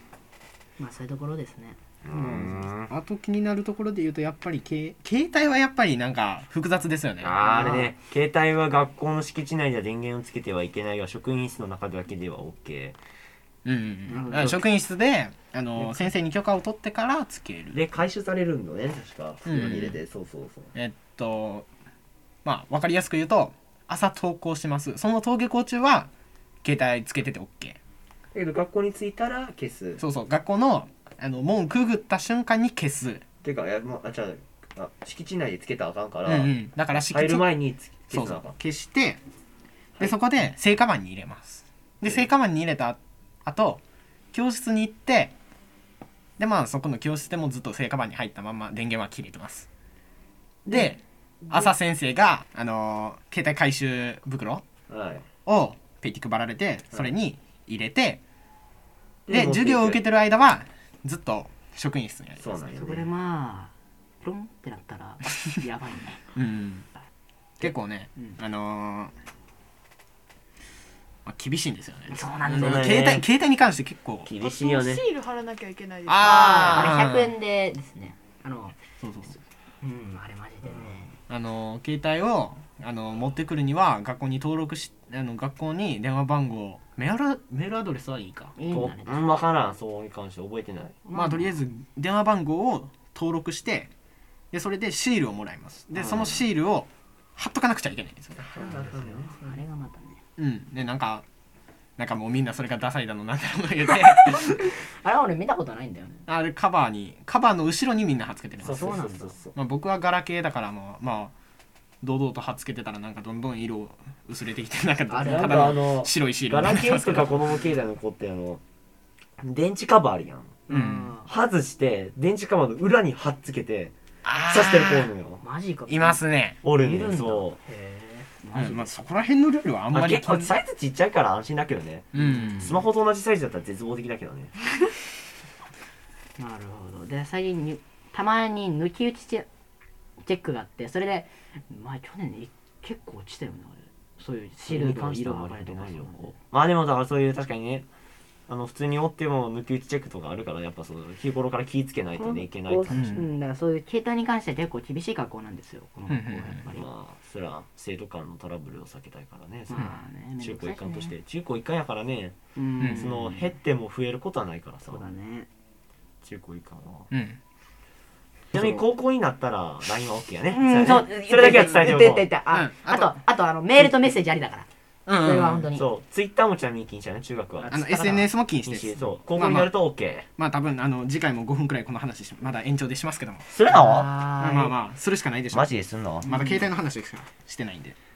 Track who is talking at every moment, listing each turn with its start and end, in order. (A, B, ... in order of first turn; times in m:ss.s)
0:00.8-0:01.8 A
0:02.0-0:02.9 B
0:02.1-0:07.4 C
0:07.2-0:13.0 B
0:07.4-0:07.9 A
0:13.6-0:17.8 C
0:14.1-0:14.6 A
0:15.8-0:16.1 B
0:17.7-0:20.7 B
0:19.4-0:20.0 C
0:20.7-0:21.6 C
0:22.4-0:26.1 C
0:26.6-0:27.8 C
0:28.3-0:30.0 B
0:30.0-0:33.2 C
0:33.4-0:38.6 B
0:36.2-0:37.5 C
0:38.1-0:39.2 C
0:40.0-0:43.8 C
0:42.0-0:42.3 B
0:44.3-0:45.3 C
0:46.4-0:49.7 C
0:50.6-0:50.9 B
0:50.7-0:54.6 C
0:54.9-0:55.3 B
0:55.4-0:58.2 C
0:59.3-1:00.0 B
0:59.3-1:02.4 C
1:02.4-1:03.1 B
1:02.7-1:06.2 A
1:06.3-1:06.8 C
1:07.6-1:09.1 C
1:11.2-1:14.3 C
1:12.1-1:13.0 A
1:12.4-1:13.3 B
1:14.2-1:15.0 B
1:14.4-1:16.9 D
1:16.1-1:17.3 C
1:16.2-1:18.8 A
1:19.0-1:19.4 C
1:19.8-1:21.1 A
1:20.7-1:21.0 B
1:21.3-1:28.6 C
1:28.6-1:29.3 A
1:28.7-1:31.0 B
1:31.0-1:31.5 A
1:31.1-1:33.9 C
1:34.5-1:38.4 C
1:35.9-1:36.5 B
1:38.4-1:39.3 B
1:38.6-1:40.2 A
1:40.4-1:41.2 C
1:42.0-1:44.7 C
1:45.0-1:46.2 A
1:46.2-1:49.0 C
1:48.6-1:49.5 B
1:48.6-1:49.4 A
1:49.5-1:51.3 C
1:52.0-1:57.3 C
1:55.1-1:55.8 A
1:55.1-1:58.6 B
1:59.4-2:00.6 B
2:00.7-2:01.3 A
2:00.7-2:01.1 C
2:01.2-2:05.4 B
2:04.2-2:05.1 C
2:05.4-2:06.2 A
2:05.9-2:06.6 C
2:06.6-2:07.6 B
2:06.7-2:09.0 A
2:08.5-2:10.5 C
2:09.9-2:14.5 B
2:12.1-2:12.8 C
2:12.2-2:12.7 A
2:16.4-2:19.5 A
2:20.2-2:26.3 A
2:24.6-2:27.9 B
2:28.5-2:33.2 B
2:32.2-2:36.8 A
2:32.9-2:33.2 C
2:36.1-2:36.6 C
2:36.7-2:42.4 B
2:39.7-2:41.1 A
2:42.6-2:43.5 A
2:42.8-2:43.1 C
2:42.9-2:45.0 B
2:44.9-2:45.5 A
2:46.2-2:47.1 B
2:47.1-2:47.4 C
2:48.5-2:52.3 B
2:50.5-2:55.9 A
2:52.5-2:53.1 C
2:55.1-2:55.7 C
2:55.7-2:57.7 B
2:57.6-2:58.3 A
2:57.7-2:59.7 C
2:58.6-3:00.3 B
3:00.4-3:03.4 C
3:03.5-3:04.3 B
3:03.7-3:04.8 A
3:04.4-3:08.0 C
3:05.5-3:06.3 B
3:06.2-3:06.7 A